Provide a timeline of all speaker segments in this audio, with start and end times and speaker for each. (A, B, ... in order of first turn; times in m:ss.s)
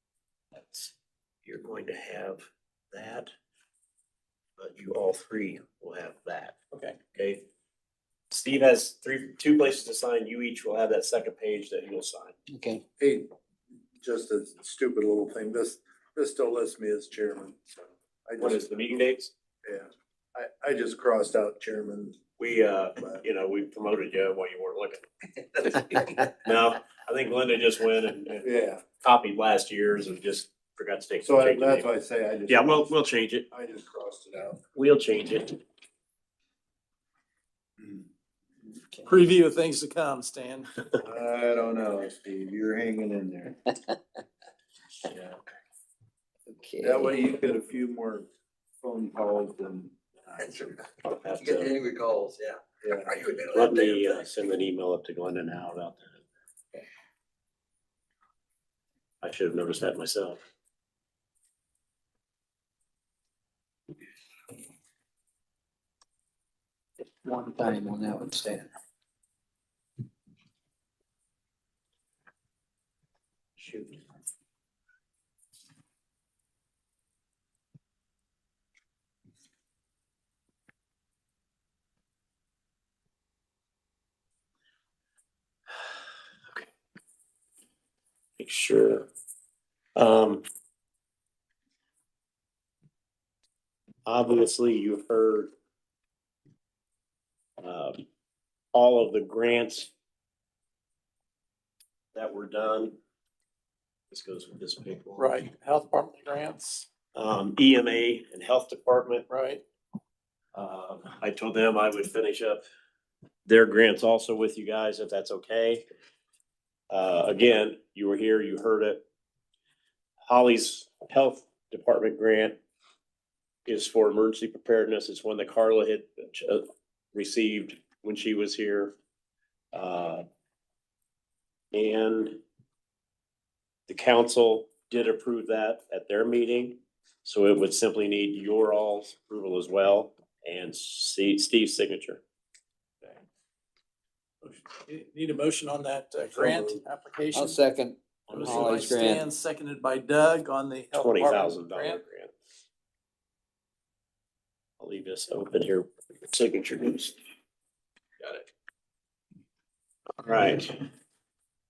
0:00.6-0:00.9 A
0:01.4-0:03.3 A
0:04.6-0:06.6 A
0:06.7-0:07.0 B
0:07.1-0:07.4 A
0:08.3-0:12.4 A
0:12.5-0:12.8 C
0:13.0-0:13.3 D
0:14.0-0:17.6 D
0:18.3-0:18.7 D
0:18.4-0:19.3 A
0:19.6-0:22.2 D
0:22.4-0:25.0 A
0:25.8-0:28.5 A
0:28.4-0:28.8 D
0:29.0-0:31.9 A
0:31.2-0:33.0 D
0:32.5-0:33.5 A
0:33.5-0:34.6 D
0:34.8-0:35.6 A
0:38.7-0:39.2 C
0:39.1-0:40.7 B
0:41.0-0:43.6 D
0:45.0-0:45.4 D
0:46.5-0:47.2 C
0:46.8-0:48.3 D
0:48.8-0:50.5 D
0:50.4-0:54.3 E
0:51.0-0:51.8 A
0:52.8-0:53.2 D
0:53.5-0:56.2 A
0:59.2-1:00.4 A
1:07.0-1:08.7 C
1:28.4-1:29.1 A
1:30.0-1:30.4 A
1:34.1-1:35.5 A
1:37.6-1:38.0 A
1:38.7-1:39.9 A
1:42.1-1:43.0 A
1:44.1-1:45.3 A
1:45.2-1:46.9 B
1:47.1-1:49.3 A
1:49.3-1:49.6 B
1:50.5-1:52.6 A
1:53.5-1:55.8 A
1:56.9-1:59.0 A
2:00.3-2:02.6 A
2:03.7-2:09.0 A
2:09.7-2:10.2 A
2:11.7-2:12.4 A
2:13.9-2:22.2 A
2:24.4-2:27.6 B
2:27.3-2:29.2 C
2:28.3-2:28.9 A
2:28.3-2:32.0 B
2:30.9-2:32.3 A
2:34.8-2:37.2 A
2:38.2-2:38.5 B
2:40.2-2:40.9 A